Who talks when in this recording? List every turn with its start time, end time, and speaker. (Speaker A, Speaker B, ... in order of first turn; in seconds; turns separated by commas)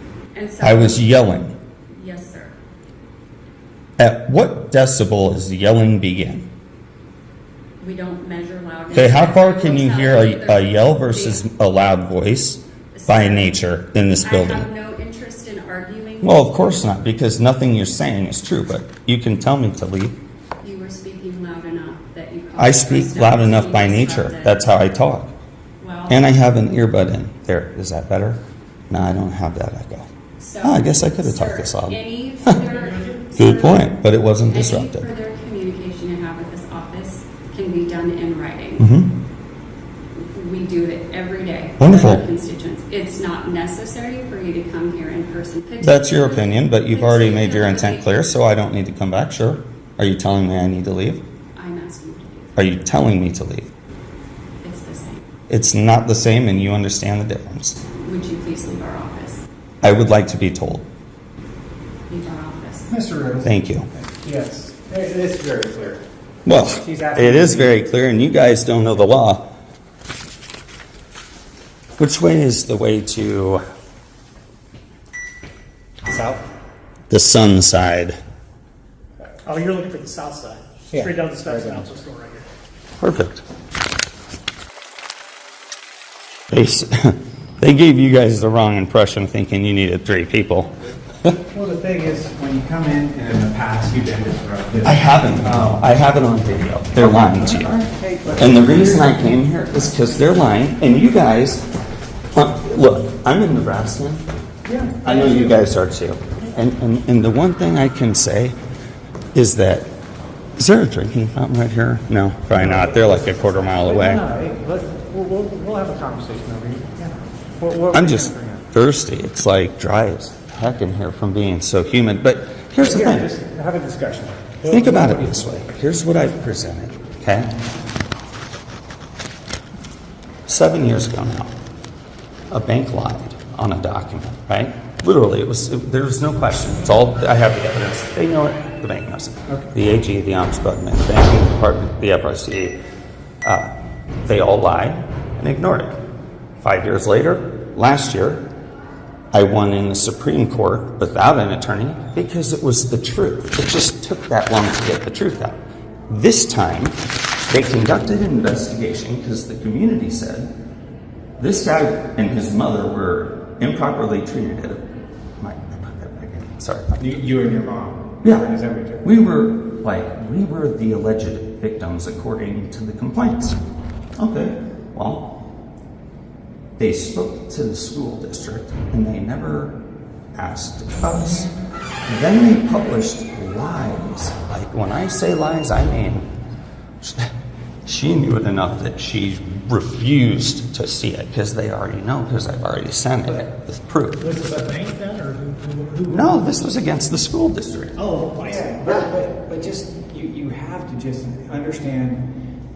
Speaker A: 0.3-1.1, Speaker B: 0.6-1.5, Speaker A: 1.9-2.5, Speaker B: 4.0-6.5, Speaker A: 7.8-11.5, Speaker B: 8.9-14.7, Speaker A: 12.9-13.6, Speaker A: 14.2-16.9, Speaker B: 16.2-20.2, Speaker A: 20.6-24.6, Speaker B: 22.6-25.3, Speaker A: 25.8-26.4, Speaker B: 26.1-30.1, Speaker A: 30.4-33.9, Speaker B: 30.6-32.6, Speaker B: 33.4-35.1, Speaker A: 34.5-38.9, Speaker B: 38.8-39.2, Speaker A: 40.2-48.1, Speaker B: 41.8-42.2, Speaker B: 45.8-51.2, Speaker A: 51.5-52.6, Speaker B: 52.6-53.7, Speaker A: 54.6-55.2, Speaker B: 55.5-57.8, Speaker A: 57.9-59.5, Speaker B: 59.8-60.9, Speaker A: 62.1-62.9, Speaker C: 62.9-66.0, Speaker B: 63.4-63.9, Speaker B: 66.5-69.5, Speaker C: 66.6-67.8, Speaker B: 72.0-73.6, Speaker C: 76.0-76.5, Speaker B: 77.1-78.2, Speaker D: 79.5-82.5, Speaker C: 80.9-81.9, Speaker B: 83.0-83.4, Speaker B: 86.5-91.4, Speaker C: 91.5-95.8, Speaker B: 94.8-97.7, Speaker C: 97.0-99.4, Speaker B: 98.4-101.7, Speaker B: 102.3-104.3, Speaker C: 104.7-105.6, Speaker B: 105.0-108.6, Speaker B: 109.3-109.9, Speaker B: 110.6-114.2, Speaker C: 112.5-118.7, Speaker B: 117.9-123.3, Speaker C: 122.8-125.6, Speaker B: 124.7-127.5, Speaker B: 130.5-131.5, Speaker B: 132.5-142.8, Speaker B: 143.4-143.7, Speaker B: 144.2-146.0, Speaker B: 146.6-148.5, Speaker B: 149.3-157.0, Speaker B: 157.5-160.5, Speaker B: 161.4-164.8, Speaker B: 165.4-167.0, Speaker C: 167.0-169.2, Speaker B: 168.2-168.5, Speaker B: 169.0-173.6, Speaker B: 174.2-175.4, Speaker B: 176.8-179.8, Speaker B: 180.3-181.5, Speaker B: 182.1-186.3, Speaker B: 187.0-187.3, Speaker B: 187.9-194.4, Speaker D: 194.3-196.3, Speaker C: 194.5-195.2, Speaker B: 196.1-198.0, Speaker D: 198.0-199.0, Speaker C: 198.4-202.3